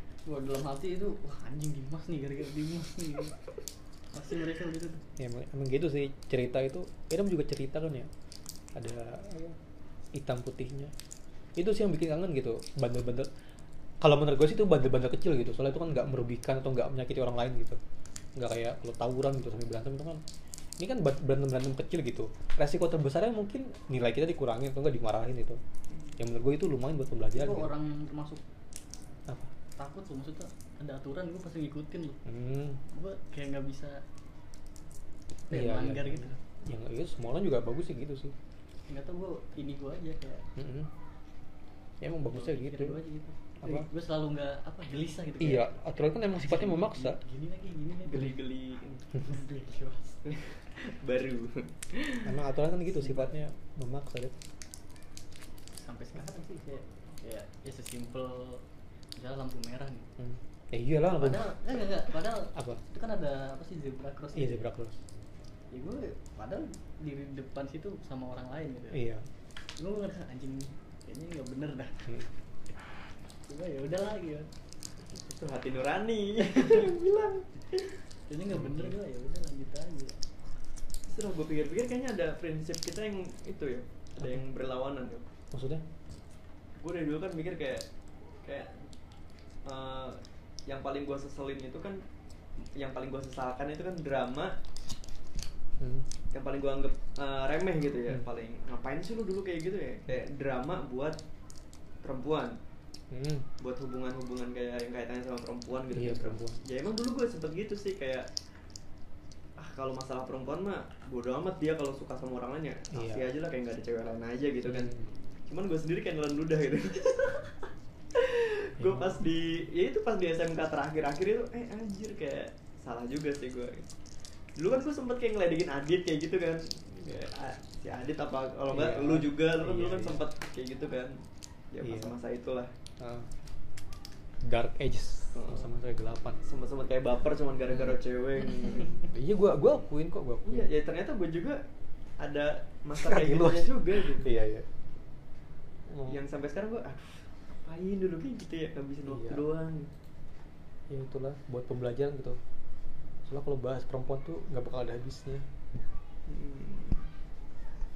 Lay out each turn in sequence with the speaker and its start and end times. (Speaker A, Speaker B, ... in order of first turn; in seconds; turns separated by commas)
Speaker A: 0.3-3.4, Speaker A: 4.1-5.0, Speaker B: 5.2-8.1, Speaker B: 8.8-9.6, Speaker B: 10.1-10.9, Speaker B: 11.6-13.3, Speaker B: 14.0-17.8, Speaker B: 18.4-20.2, Speaker B: 20.8-25.6, Speaker B: 26.2-27.7, Speaker A: 27.3-28.4, Speaker A: 29.8-32.2, Speaker B: 32.2-32.8, Speaker A: 32.9-34.0, Speaker A: 35.5-36.4, Speaker B: 35.5-38.3, Speaker A: 38.9-40.5, Speaker B: 40.6-40.9, Speaker B: 42.0-43.0, Speaker A: 42.2-48.4, Speaker B: 45.4-47.2, Speaker C: 48.1-49.2, Speaker A: 49.1-50.2, Speaker C: 50.2-52.4, Speaker B: 52.2-54.3, Speaker A: 52.9-53.4, Speaker A: 55.7-58.6, Speaker A: 59.1-60.1, Speaker B: 60.2-61.5, Speaker A: 61.1-64.7, Speaker B: 62.5-62.8, Speaker B: 64.3-65.0, Speaker A: 65.7-69.1, Speaker B: 68.9-69.2, Speaker A: 69.8-72.1, Speaker A: 73.5-74.5, Speaker C: 75.1-78.0, Speaker A: 78.3-80.2, Speaker B: 78.5-78.9, Speaker C: 81.1-85.3, Speaker B: 85.5-85.8, Speaker C: 86.8-87.9, Speaker C: 88.4-88.8, Speaker C: 89.7-92.0, Speaker C: 92.8-94.6, Speaker B: 95.8-96.1, Speaker C: 96.3-101.2, Speaker C: 102.0-102.6, Speaker B: 103.1-103.5, Speaker C: 103.6-108.3, Speaker B: 105.9-106.6, Speaker C: 109.6-115.0, Speaker B: 112.9-113.3, Speaker B: 114.7-115.1, Speaker C: 115.5-123.9, Speaker B: 118.8-119.2, Speaker C: 124.6-132.7, Speaker B: 128.7-130.2, Speaker B: 131.8-132.1, Speaker B: 133.0-133.3, Speaker B: 134.4-136.4, Speaker C: 135.3-135.7, Speaker C: 136.4-139.0, Speaker B: 139.0-140.7, Speaker C: 140.4-141.6, Speaker C: 142.2-144.3, Speaker B: 142.9-144.7, Speaker B: 145.9-146.2, Speaker C: 146.1-149.9, Speaker B: 149.1-149.4, Speaker B: 150.9-152.4, Speaker B: 153.3-155.5, Speaker C: 156.3-157.1